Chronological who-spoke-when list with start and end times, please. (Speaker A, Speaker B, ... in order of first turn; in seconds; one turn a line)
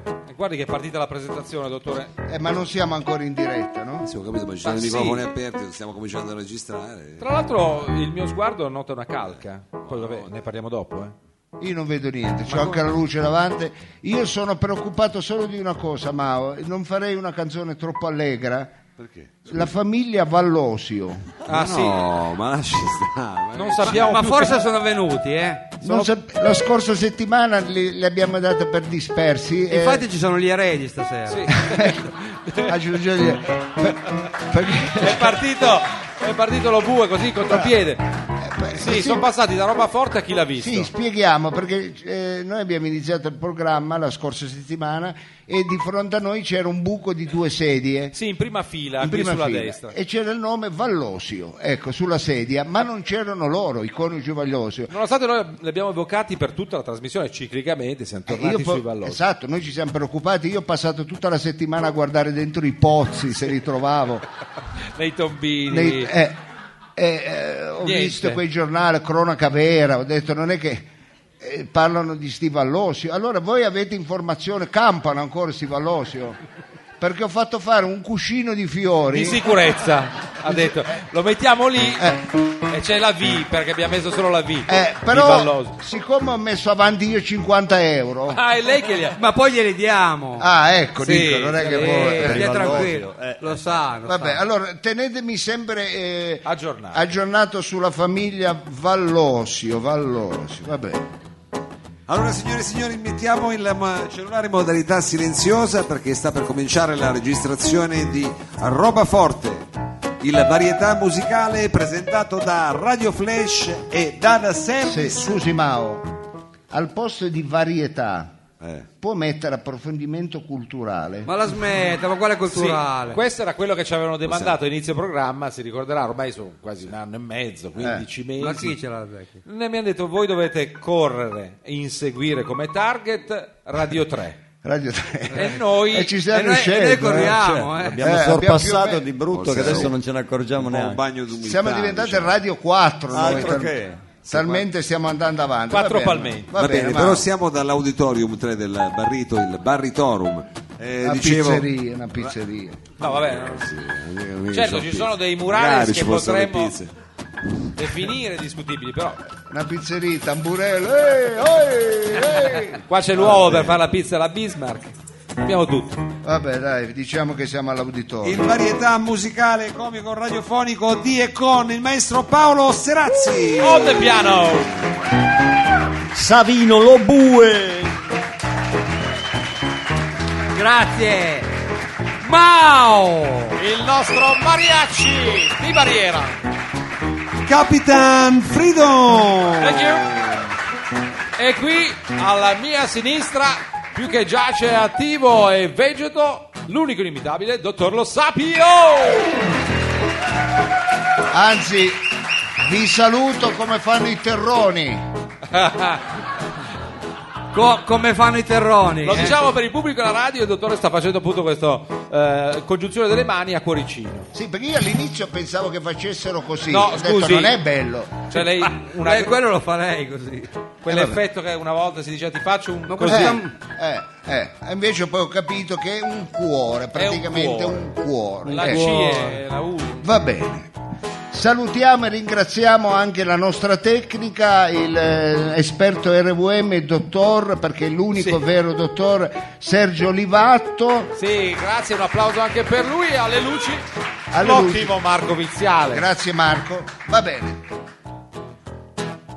Speaker A: 0.3-2.1
Speaker B: 2.3-4.1
Speaker C: 4.0-7.2
Speaker A: 4.6-5.2
Speaker A: 7.2-11.2
Speaker C: 9.9-10.2
Speaker B: 11.6-18.8
Speaker A: 12.5-12.8
Speaker C: 19.0-19.7
Speaker B: 19.5-21.3
Speaker A: 21.4-22.0
Speaker C: 21.5-24.3
Speaker A: 23.5-24.6
Speaker D: 23.8-26.1
Speaker B: 25.8-30.0
Speaker D: 29.7-31.7
Speaker A: 31.3-32.7
Speaker B: 31.7-35.4
Speaker A: 35.0-38.0
Speaker B: 37.5-37.8
Speaker B: 38.4-39.2
Speaker A: 38.7-40.9
Speaker B: 40.6-48.2
Speaker A: 48.1-50.0
Speaker B: 49.0-54.9
Speaker A: 54.9-59.2
Speaker B: 58.3-64.2
Speaker A: 65.0-66.1
Speaker B: 65.7-66.4
Speaker B: 67.0-70.9
Speaker A: 67.8-68.4
Speaker B: 71.4-76.4
Speaker B: 77.0-79.5
Speaker A: 79.1-82.1
Speaker B: 80.5-81.0
Speaker B: 82.0-82.2
Speaker A: 82.7-85.8
Speaker B: 84.7-88.4
Speaker A: 88.3-89.2
Speaker D: 89.2-90.5
Speaker B: 90.4-92.9
Speaker A: 91.0-92.1
Speaker D: 91.6-94.4
Speaker E: 91.7-93.6
Speaker B: 94.1-101.1
Speaker A: 96.5-97.0
Speaker C: 102.1-109.7
Speaker C: 110.2-115.4
Speaker B: 114.8-116.1
Speaker B: 116.7-118.4
Speaker C: 118.6-118.9
Speaker B: 119.0-121.3
Speaker D: 121.2-123.2
Speaker A: 122.5-128.8
Speaker C: 124.3-124.5
Speaker B: 127.8-128.1
Speaker D: 128.4-129.4
Speaker A: 129.4-134.4
Speaker B: 134.6-139.9
Speaker A: 135.3-136.2
Speaker D: 136.3-138.1
Speaker E: 137.3-141.0
Speaker C: 139.3-139.9
Speaker C: 140.6-142.3
Speaker B: 141.4-143.8
Speaker E: 143.1-144.1
Speaker C: 143.2-143.6
Speaker C: 144.2-144.6
Speaker B: 144.3-147.3
Speaker A: 145.7-146.5
Speaker C: 146.5-152.3
Speaker B: 151.0-152.8
Speaker A: 153.0-153.7
Speaker C: 153.0-156.9
Speaker A: 154.5-156.8
Speaker A: 157.8-159.2
Speaker B: 159.5-163.7
Speaker A: 162.8-166.0
Speaker C: 163.3-163.5
Speaker B: 166.2-168.4
Speaker C: 168.2-174.1
Speaker A: 173.6-174.7
Speaker E: 176.1-178.0
Speaker D: 180.5-181.5
Speaker D: 182.2-183.6
Speaker A: 183.5-186.3
Speaker C: 187.4-190.3
Speaker A: 189.6-190.2
Speaker A: 191.4-199.3
Speaker B: 201.3-202.1
Speaker B: 202.6-205.1
Speaker A: 205.5-206.0
Speaker D: 207.5-209.5
Speaker A: 209.0-214.3
Speaker B: 214.3-218.3
Speaker A: 216.7-217.6
Speaker A: 218.3-219.3
Speaker D: 218.3-220.6
Speaker A: 220.8-223.4
Speaker B: 220.8-221.2
Speaker D: 222.9-223.5
Speaker B: 223.1-228.8
Speaker A: 226.9-227.9
Speaker A: 228.4-230.2
Speaker D: 228.5-229.4
Speaker B: 230.0-230.7
Speaker B: 231.3-241.1
Speaker A: 238.2-238.4
Speaker A: 241.1-243.8
Speaker B: 244.3-245.0
Speaker A: 244.3-246.1
Speaker B: 245.9-247.6